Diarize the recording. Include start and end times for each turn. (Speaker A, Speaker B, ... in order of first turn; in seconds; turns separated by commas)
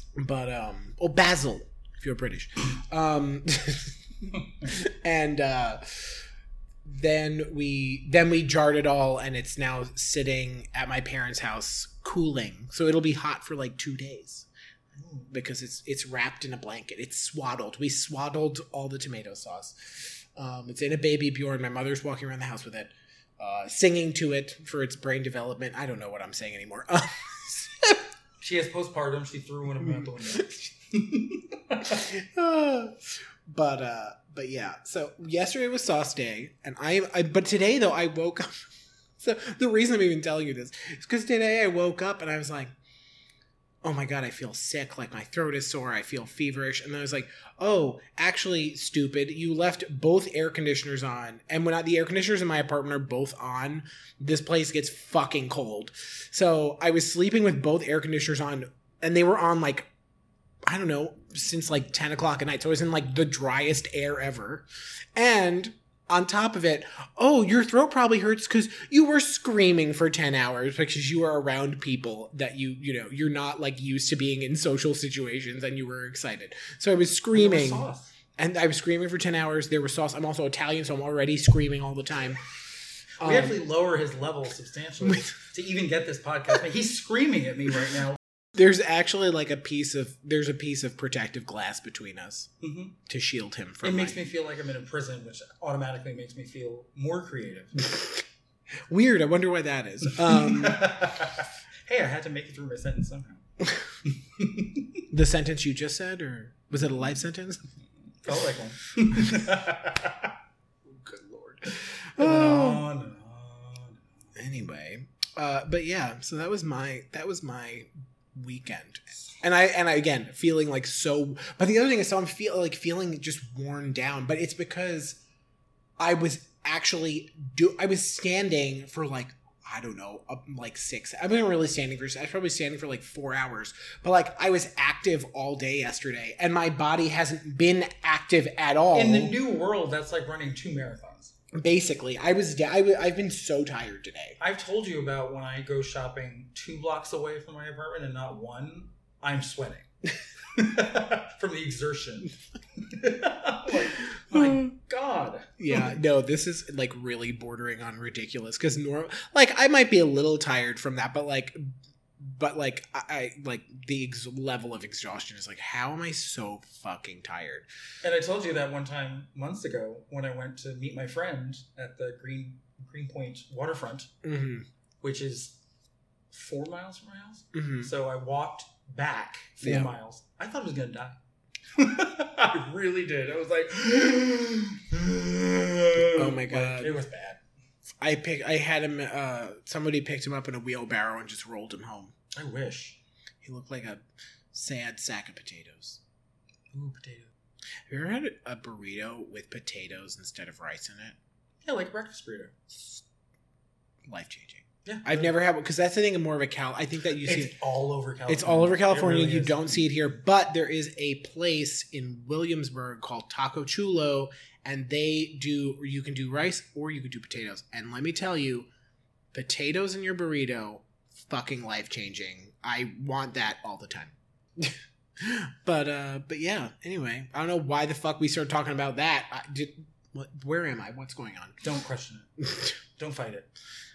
Speaker A: 0.2-6.2, Speaker B: 4.4-4.7, Speaker A: 6.8-14.5, Speaker B: 15.0-15.3, Speaker A: 15.3-28.0, Speaker B: 28.4-32.1, Speaker A: 29.8-30.5, Speaker A: 31.8-38.7, Speaker A: 39.2-42.7, Speaker A: 43.8-59.9, Speaker A: 60.7-82.4, Speaker B: 77.3-78.1, Speaker A: 83.2-83.6, Speaker B: 83.2-88.2, Speaker A: 85.0-85.3, Speaker A: 88.5-92.5, Speaker B: 92.6-93.0, Speaker A: 93.1-94.2, Speaker B: 93.8-97.8, Speaker A: 97.8-98.2, Speaker A: 98.9-101.1, Speaker B: 100.1-103.4, Speaker B: 104.0-105.0, Speaker A: 105.1-107.6, Speaker B: 108.2-110.3, Speaker A: 110.9-112.9, Speaker B: 112.2-114.1, Speaker A: 114.3-125.2, Speaker A: 126.0-139.3, Speaker B: 138.9-141.3, Speaker A: 141.6-144.4, Speaker B: 144.4-149.9, Speaker B: 150.5-156.0, Speaker A: 154.2-154.7, Speaker A: 155.6-167.7, Speaker B: 168.0-174.1, Speaker A: 174.2-174.7, Speaker B: 175.0-175.6, Speaker B: 176.3-181.2, Speaker A: 177.5-177.9, Speaker A: 179.6-179.9, Speaker B: 181.8-187.4, Speaker A: 186.2-187.0, Speaker A: 188.0-192.1, Speaker B: 192.3-193.0, Speaker A: 193.4-196.0, Speaker B: 196.7-197.3, Speaker A: 197.9-201.2, Speaker B: 201.7-202.5, Speaker A: 202.7-203.0, Speaker A: 204.1-207.5, Speaker B: 204.8-205.3, Speaker B: 207.2-209.8, Speaker A: 208.3-218.7, Speaker A: 219.3-231.6, Speaker B: 231.6-232.3, Speaker B: 233.0-233.5